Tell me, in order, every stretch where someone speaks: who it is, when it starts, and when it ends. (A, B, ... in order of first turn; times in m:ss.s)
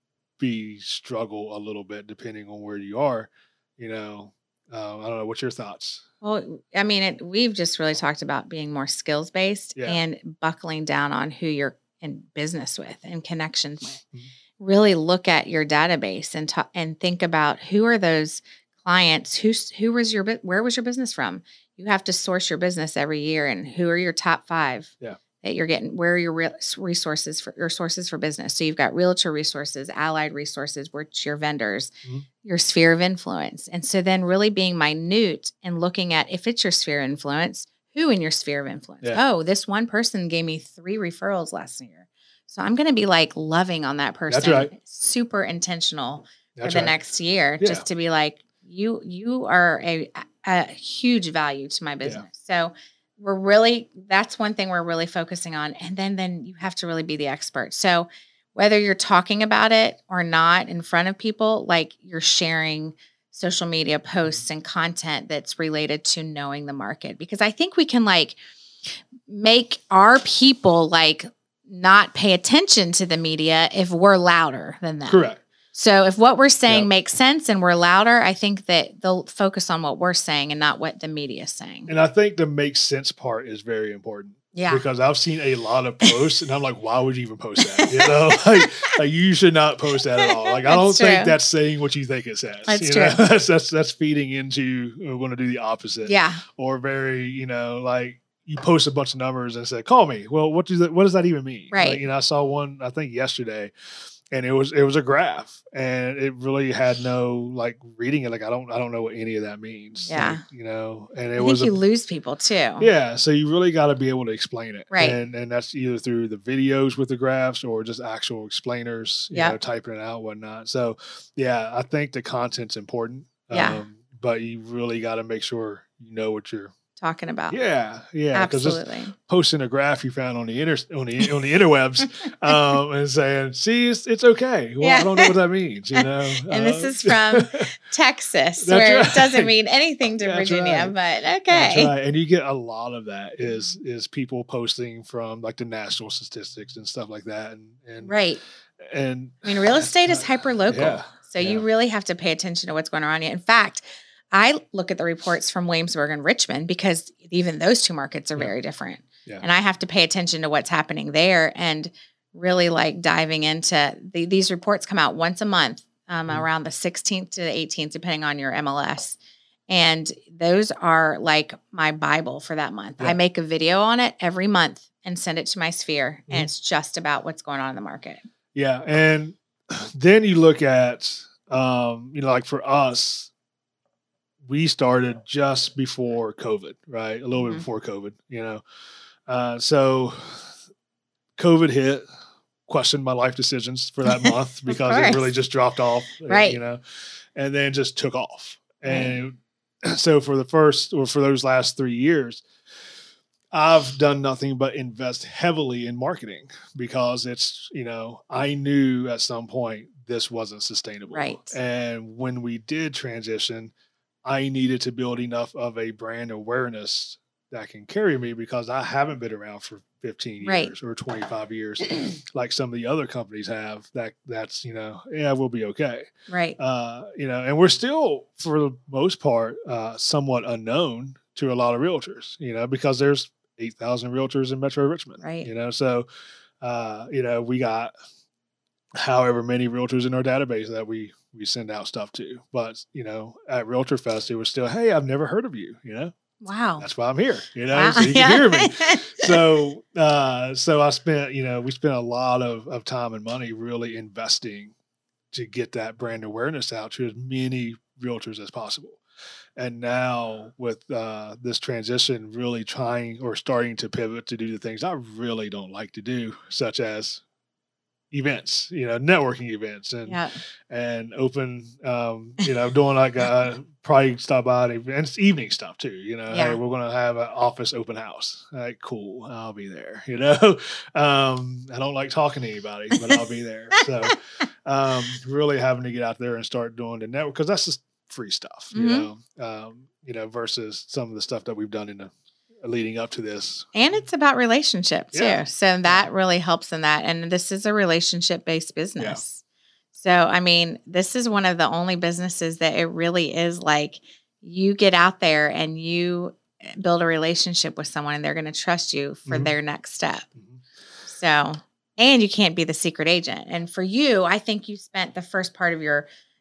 0:00.4-0:06.0 A
0:06.2-0:14.0 B
0:14.6-0:31.9 B
0:32.4-1:08.4 B
0:44.3-0:44.7 A
0:46.6-0:47.0 A
0:47.6-0:47.9 A
1:09.2-1:15.2 B
1:15.1-1:15.4 A
1:15.7-1:21.9 B
1:21.9-1:43.7 A
1:24.5-1:24.8 B
1:27.6-1:28.9 B
1:30.2-1:31.3 B
1:32.7-1:33.2 B
1:36.1-1:36.4 B
1:41.7-1:42.0 B
1:44.3-1:51.7 A
1:50.1-1:50.4 B
1:51.4-1:52.9 B
1:52.8-2:06.7 A
1:54.9-1:55.2 B
1:59.3-1:59.6 B
2:03.5-2:03.8 B
2:07.0-2:07.6 B
2:07.5-2:17.7 A
2:08.3-2:09.1 B
2:14.8-2:15.3 B
2:16.0-2:21.9 B
2:18.6-2:19.5 A
2:20.2-2:21.0 A
2:21.5-2:28.2 A
2:23.4-2:23.8 B
2:28.0-2:28.4 B
2:28.8-2:31.6 A
2:29.4-2:49.2 B
2:49.7-2:58.2 B
2:58.6-3:03.3 A
3:04.4-3:08.6 A
3:07.4-3:07.7 B
3:09.3-3:10.5 A
3:11.4-3:12.1 A
3:12.7-3:16.8 A
3:14.1-3:15.3 B
3:16.3-3:16.6 B
3:17.4-3:22.4 A
3:18.9-3:19.2 B
3:23.5-3:33.7 A
3:31.1-3:31.6 B
3:34.2-3:56.1 A
3:40.4-3:40.7 B
3:46.3-3:46.6 B
3:55.2-3:55.5 B
3:56.6-3:57.9 A
3:59.0-4:06.1 A
4:06.4-4:06.9 B
4:06.8-4:14.7 A
4:07.7-4:09.3 B
4:15.3-4:19.0 A
4:19.6-4:27.2 A
4:28.1-4:54.0 A
4:30.1-4:30.4 B
4:36.3-4:36.6 B
4:48.7-4:49.1 B
4:53.8-4:59.4 B
4:55.1-4:56.1 A
4:59.9-5:10.3 B
5:09.3-5:09.5 A
5:10.4-5:10.6 A
5:11.1-5:16.1 B